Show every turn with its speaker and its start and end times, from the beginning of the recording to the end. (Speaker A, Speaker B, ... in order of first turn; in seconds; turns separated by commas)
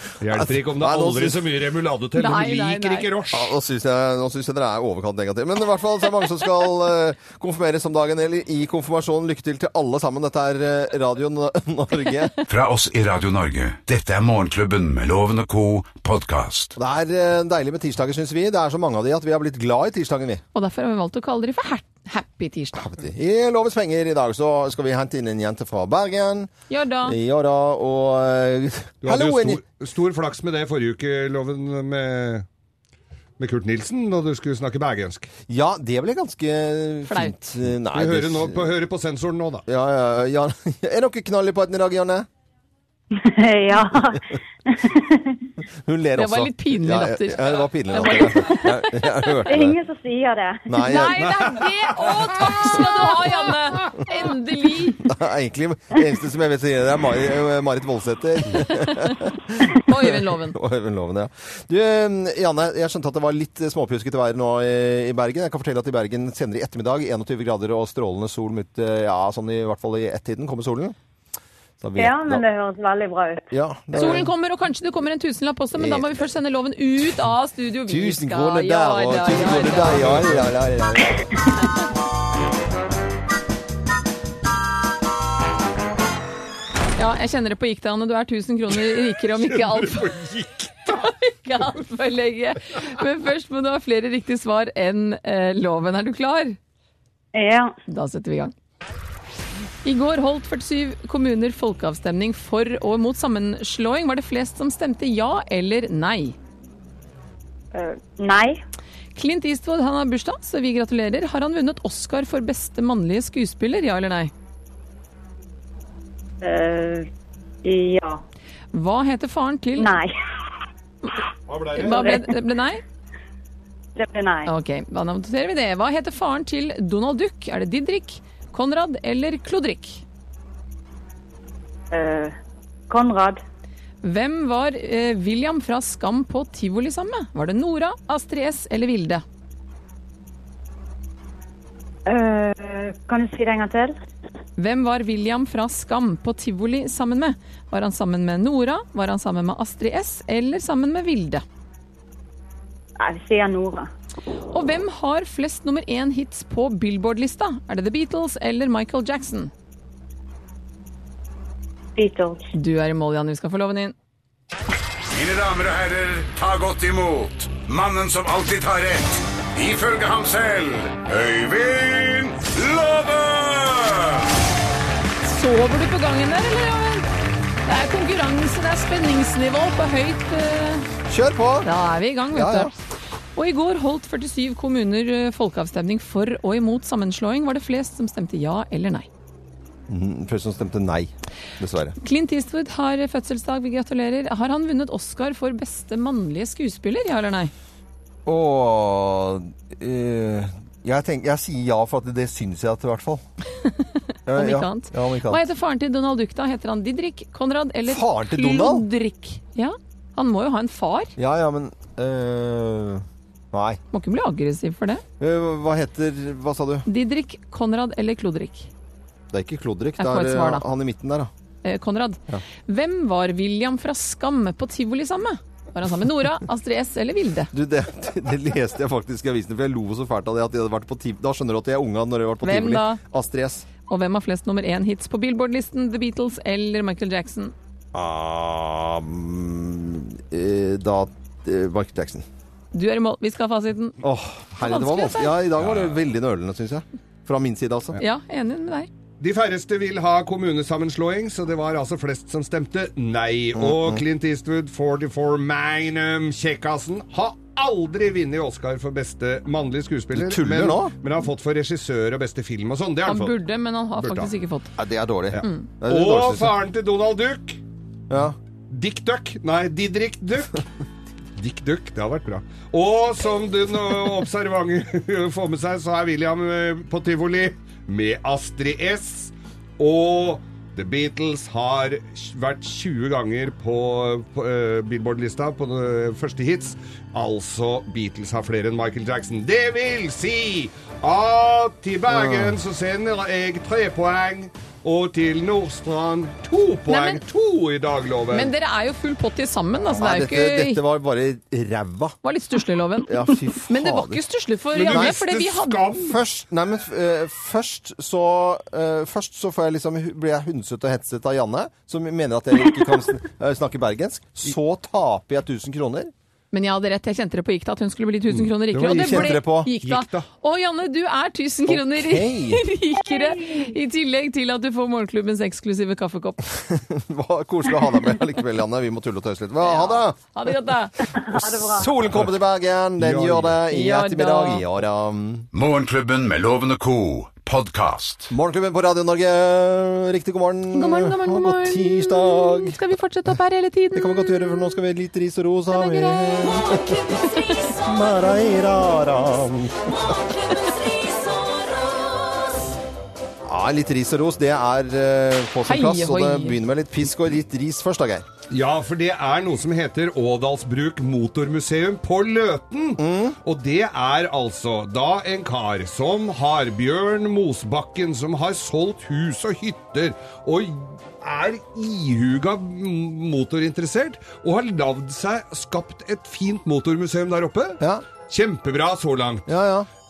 Speaker A: 0.2-3.5, Speaker B: 0.3-1.5, Speaker C: 2.2-3.1, Speaker B: 3.3-12.3, Speaker D: 12.5-16.8, Speaker B: 16.8-20.4, Speaker C: 20.5-22.9, Speaker B: 22.7-26.5, Speaker C: 26.7-27.2, Speaker B: 27.0-29.6, Speaker A: 29.0-32.5, Speaker A: 33.4-35.3, Speaker B: 35.5-38.7, Speaker C: 37.1-37.4, Speaker A: 37.9-39.6, Speaker B: 39.7-42.3, Speaker E: 43.1-45.4, Speaker B: 43.9-44.2, Speaker B: 45.7-49.8, Speaker C: 46.2-48.7, Speaker E: 49.4-50.9, Speaker B: 50.7-51.6, Speaker C: 50.8-55.0, Speaker A: 51.2-51.7, Speaker B: 55.0-71.0, Speaker C: 58.6-59.1, Speaker C: 59.7-60.6, Speaker B: 71.8-72.4, Speaker E: 72.0-73.5, Speaker B: 73.5-74.3, Speaker C: 73.9-80.2, Speaker B: 75.7-76.1, Speaker B: 77.9-81.3, Speaker A: 80.0-80.3, Speaker C: 87.0-90.2, Speaker A: 89.2-91.0, Speaker C: 90.9-96.6, Speaker E: 97.3-97.7, Speaker C: 97.9-98.5, Speaker C: 99.8-106.4, Speaker E: 107.7-108.6, Speaker C: 109.2-114.3, Speaker E: 116.4-117.1, Speaker E: 117.6-118.2, Speaker C: 118.7-120.0, Speaker E: 119.8-120.1, Speaker A: 121.5-122.2, Speaker C: 121.8-122.8, Speaker E: 121.8-122.3, Speaker E: 124.0-124.5, Speaker C: 124.5-130.0, Speaker E: 131.9-132.3, Speaker E: 132.9-133.4, Speaker C: 134.0-139.2, Speaker E: 142.1-143.9, Speaker C: 144.6-151.4, Speaker E: 153.0-153.9, Speaker C: 154.5-159.5, Speaker E: 162.0-162.4, Speaker C: 162.5-163.9, Speaker D: 165.2-173.9, Speaker C: 175.2-177.1, Speaker C: 177.7-180.9, Speaker B: 181.1-181.7, Speaker C: 181.6-182.7, Speaker B: 182.3-182.7, Speaker C: 183.4-189.1, Speaker B: 189.9-191.9, Speaker C: 192.0-197.5, Speaker B: 198.3-203.2, Speaker C: 203.6-211.1, Speaker B: 204.3-205.4, Speaker B: 207.9-208.8, Speaker B: 211.2-213.8, Speaker C: 213.9-215.0, Speaker B: 215.2-216.9, Speaker C: 216.9-218.7, Speaker B: 219.3-221.3, Speaker C: 220.0-220.7, Speaker C: 221.6-227.5, Speaker B: 227.5-233.7, Speaker C: 232.4-233.0, Speaker C: 233.9-237.5, Speaker B: 237.9-242.3, Speaker C: 242.7-244.0, Speaker B: 244.0-248.0, Speaker C: 244.6-245.4, Speaker C: 248.0-248.9, Speaker A: 249.2-263.4, Speaker B: 253.6-254.0, Speaker B: 260.1-260.9, Speaker C: 263.1-264.7, Speaker A: 264.0-264.3, Speaker B: 264.8-266.6, Speaker A: 265.4-267.6, Speaker C: 265.4-265.7, Speaker B: 268.1-268.4, Speaker A: 268.7-270.6, Speaker A: 271.4-298.5, Speaker B: 292.1-292.6, Speaker C: 296.9-297.2, Speaker C: 298.3-300.8, Speaker B: 299.8-302.2, Speaker C: 302.2-306.0, Speaker B: 303.0-304.2, Speaker A: 304.7-306.2, Speaker B: 304.8-305.2, Speaker B: 305.9-316.1, Speaker C: 316.5-326.4, Speaker A: 318.3-320.3, Speaker B: 318.8-319.7, Speaker B: 321.7-322.7, Speaker B: 326.6-330.2, Speaker C: 329.6-330.9, Speaker E: 331.2-331.9, Speaker B: 331.3-335.5, Speaker A: 333.0-333.6, Speaker C: 333.7-334.7, Speaker D: 335.5-338.3, Speaker B: 338.3-342.8, Speaker C: 340.7-344.3, Speaker B: 343.9-347.1, Speaker C: 345.7-346.5, Speaker F: 346.4-348.4, Speaker C: 347.2-347.6, Speaker B: 347.8-349.9, Speaker F: 349.9-352.8, Speaker B: 353.4-358.3, Speaker C: 355.7-356.6, Speaker A: 358.5-379.5, Speaker B: 363.0-363.4, Speaker B: 377.8-378.1, Speaker B: 379.5-379.9